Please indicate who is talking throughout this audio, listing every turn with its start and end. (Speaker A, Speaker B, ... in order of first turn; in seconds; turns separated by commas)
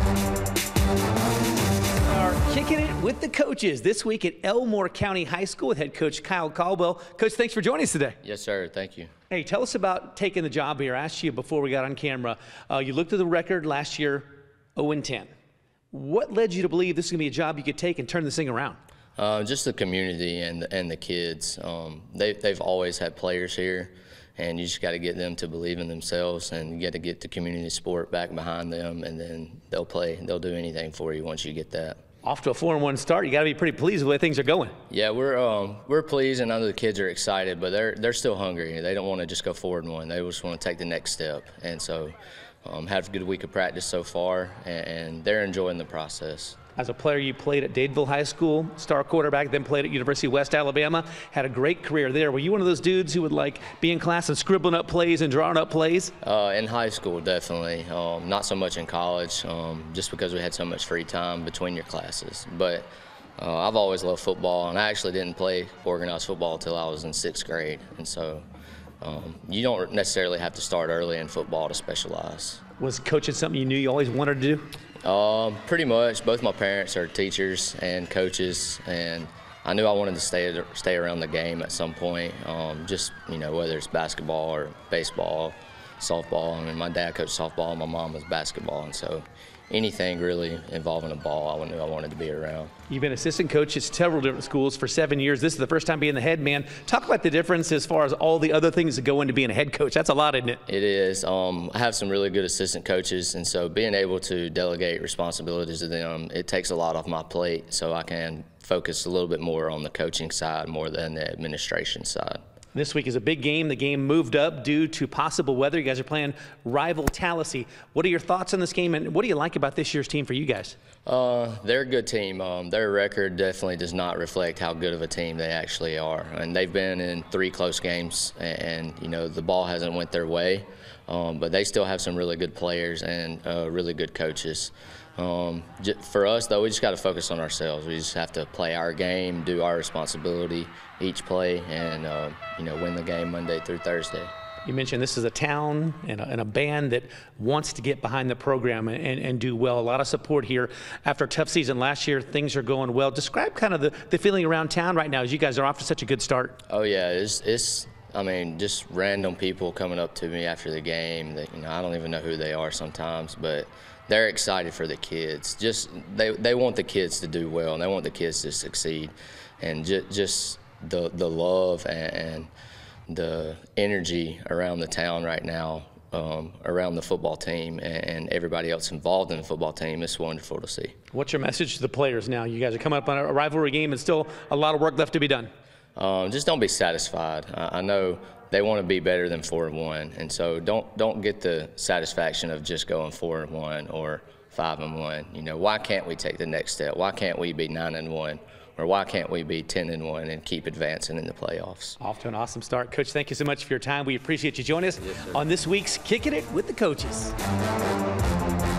Speaker A: 2.1-8.2, Speaker B: 8.2-9.1, Speaker A: 9.3-15.3, Speaker A: 15.9-18.8, Speaker B: 19.2-32.0, Speaker A: 32.2-34.8, Speaker B: 34.9-46.6, Speaker A: 46.8-56.1, Speaker B: 56.2-68.4, Speaker B: 69.0-72.6, Speaker A: 72.8-74.7, Speaker B: 75.0-92.7, Speaker A: 92.9-100.6, Speaker B: 100.7-112.4, Speaker A: 112.7-120.8, Speaker B: 121.0-144.3, Speaker A: 144.6-156.6, Speaker B: 156.7-172.5, Speaker B: 173.1-180.9, Speaker A: 181.1-185.5, Speaker B: 186.0-202.0, Speaker A: 202.0-207.3